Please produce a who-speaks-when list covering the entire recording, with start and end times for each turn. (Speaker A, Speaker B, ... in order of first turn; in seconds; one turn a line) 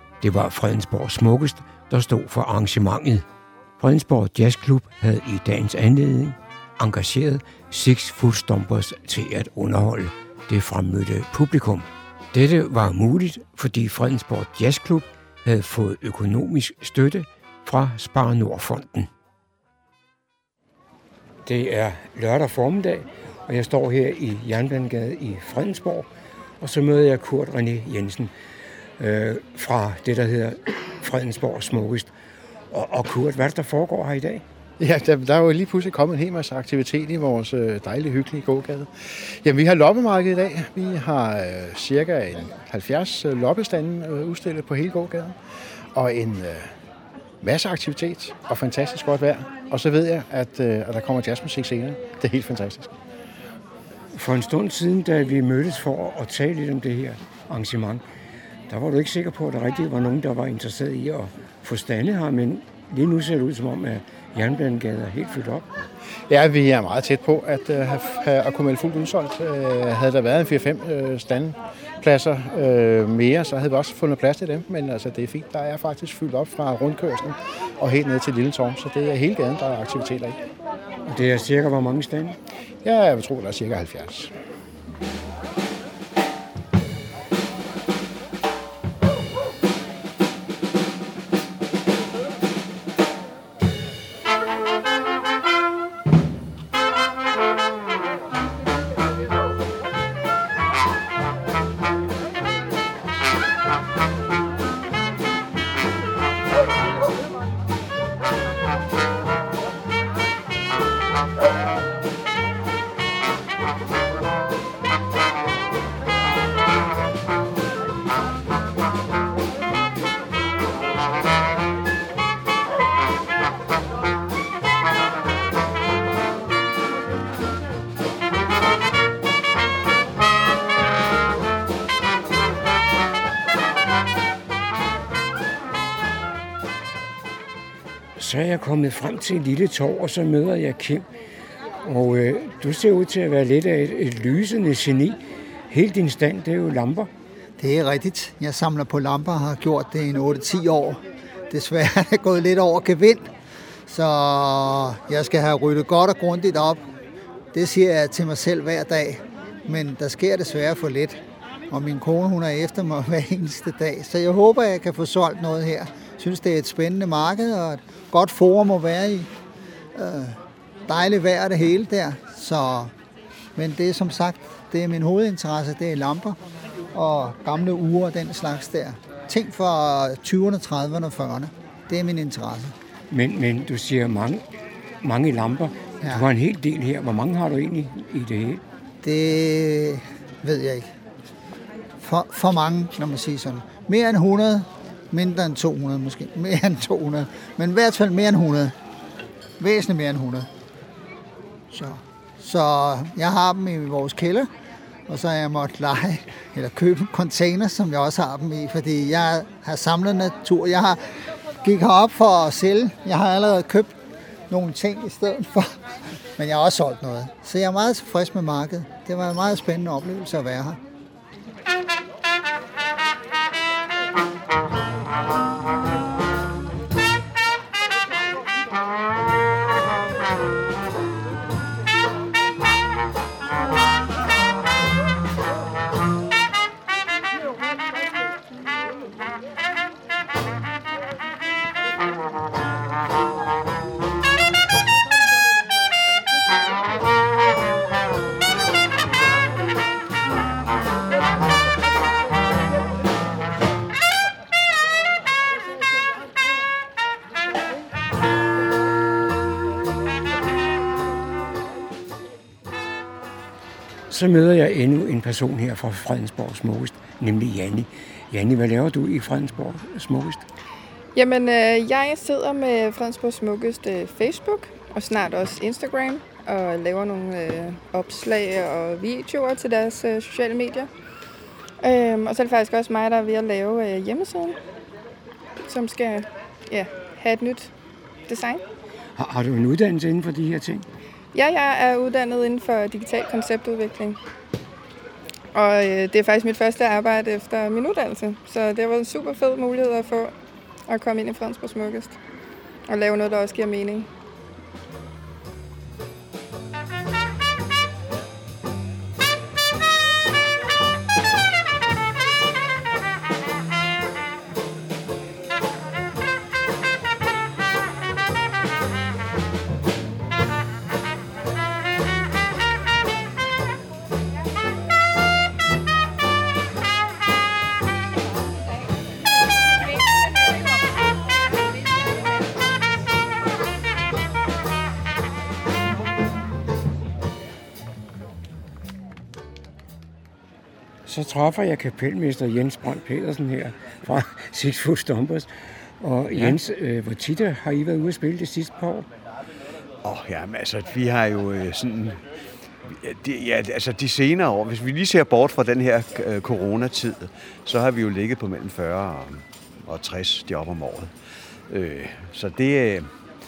Speaker A: 0.2-3.2
Speaker A: 3.8-19.1
Speaker A: 21.4-26.1
Speaker A: 26.6-28.3
Speaker A: 29.0-32.1
Speaker A: 32.7-34.4
Speaker B: 34.8-45.4
Speaker B: 45.9-46.7
Speaker B: 47.4-52.9
Speaker A: 54.1-58.0
Speaker A: 58.7-65.6
Speaker B: 66.3-80.4
Speaker A: 81.1-82.3
Speaker B: 82.8-84.3
Speaker A: 138.2-141.0
Speaker A: 141.8-145.2
Speaker A: 145.7-147.1
Speaker C: 147.6-153.3
Speaker C: 153.9-156.8
Speaker C: 157.5-169.3
Speaker C: 169.9-172.9
Speaker C: 173.6-176.4
Speaker C: 176.9-182.7
Speaker A: 183.1-184.4
Speaker A: 185.0-188.6
Speaker C: 189.0-190.9
Speaker C: 192.0-198.7
Speaker C: 199.6-200.5
Speaker C: 201.7-204.5
Speaker C: 205.1-211.0
Speaker C: 211.6-213.9
Speaker C: 214.5-215.8
Speaker C: 216.4-220.8
Speaker A: 264.1-270.4
Speaker D: 271.1-280.9
Speaker D: 281.8-284.6
Speaker D: 285.6-287.7
Speaker D: 288.3-288.6
Speaker A: 289.1-290.9
Speaker D: 291.3-294.2
Speaker D: 295.5-300.3
Speaker D: 300.9-302.2
Speaker D: 302.9-304.1
Speaker A: 341.1-345.5
Speaker A: 346.0-349.1
Speaker E: 350.0-352.2
Speaker E: 352.9-361.1
Speaker E: 361.7-363.1